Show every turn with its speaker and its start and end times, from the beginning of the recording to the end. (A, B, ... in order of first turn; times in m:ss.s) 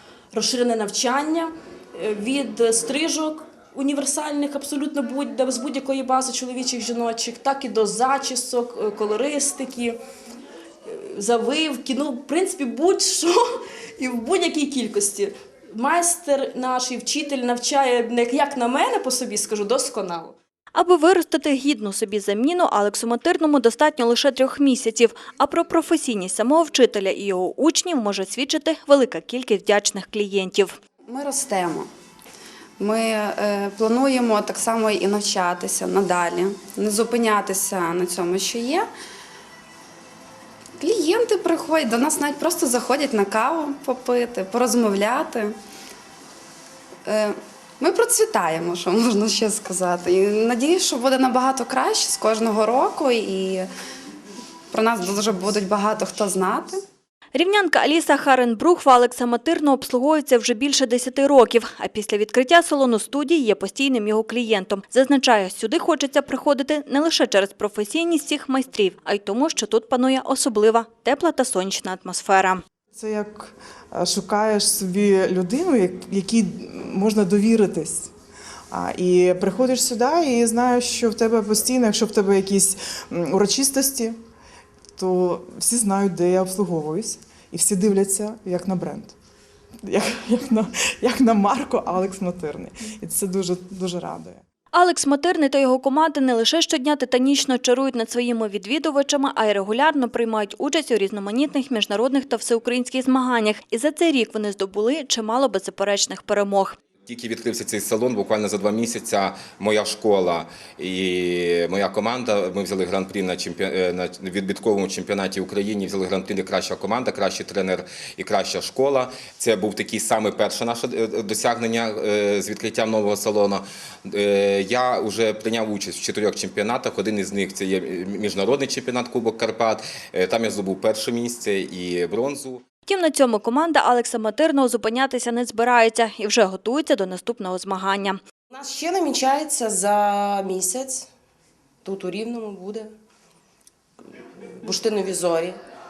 0:00.3-0:10.0 A
0:10.9-0:13.4 A
0:14.0-0:20.4 A
0:20.8-0:30.7 B
0:31.1-0:31.9 C
0:32.8-0:38.9 C
0:40.8-0:45.5 C
0:47.1-0:53.7 C
0:54.7-0:56.8 C
0:57.3-1:12.6 B
1:12.9-1:18.1 D
1:18.7-1:24.2 D
1:25.0-1:29.2 D
1:29.8-1:34.4 D
1:34.7-1:46.8 B
1:47.1-2:12.6 E
2:12.9-2:18.2 B
2:18.5-2:21.1 F
2:21.8-2:22.9 F
2:24.6-2:25.6 F